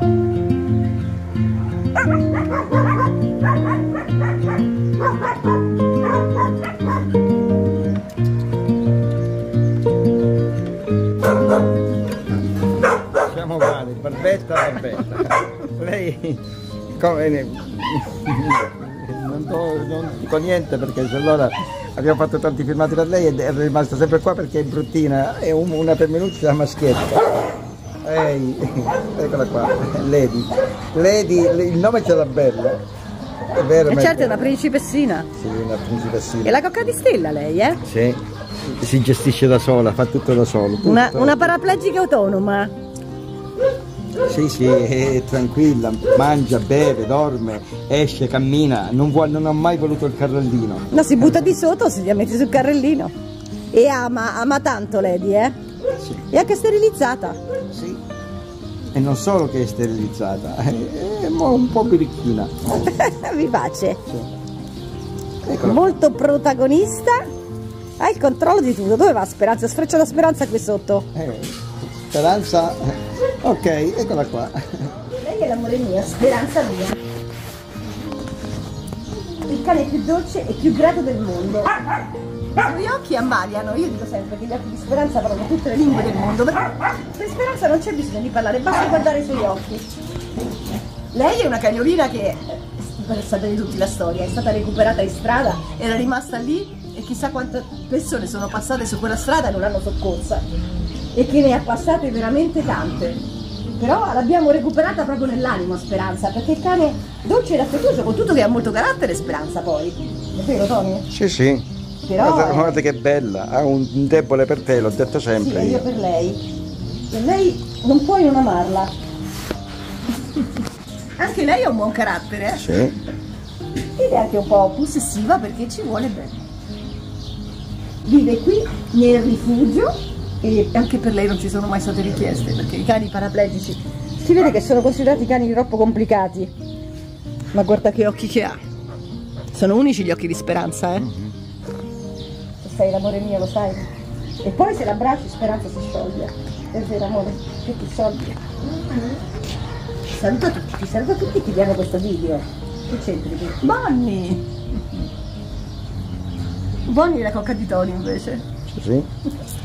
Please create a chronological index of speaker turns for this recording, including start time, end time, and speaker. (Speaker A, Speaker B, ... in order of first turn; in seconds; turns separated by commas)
Speaker A: 13.2-16.4, Speaker A: 16.9-27.3, Speaker A: 28.0-32.8, Speaker A: 33.5-34.5, Speaker B: 33.9-35.3, Speaker A: 35.4-36.6, Speaker B: 36.4-37.8, Speaker A: 37.8-41.5, Speaker B: 40.8-42.7, Speaker A: 44.2-50.9, Speaker B: 50.9-53.1, Speaker B: 53.7-55.5, Speaker A: 56.0-56.2, Speaker B: 56.3-57.4, Speaker A: 57.7-58.0, Speaker A: 58.9-62.5, Speaker B: 62.8-64.0, Speaker A: 65.5-65.9, Speaker B: 65.6-67.2, Speaker B: 68.0-71.1, Speaker A: 71.1-71.5, Speaker A: 72.1-74.9, Speaker B: 75.2-77.0, Speaker B: 79.4-81.8, Speaker B: 82.5-89.8, Speaker B: 91.1-100.4, Speaker B: 101.1-103.2, Speaker B: 103.8-111.1, Speaker A: 111.1-111.6, Speaker B: 112.0-112.8, Speaker A: 112.2-115.8, Speaker B: 115.4-116.4, Speaker B: 117.1-118.9, Speaker B: 121.2-122.7, Speaker A: 122.5-123.0, Speaker B: 123.9-126.3, Speaker B: 128.0-136.5, Speaker B: 137.5-138.6, Speaker B: 139.5-141.1, Speaker B: 142.6-143.9, Speaker B: 144.4-148.4, Speaker B: 150.1-154.4, Speaker B: 156.8-158.4, Speaker A: 158.7-159.1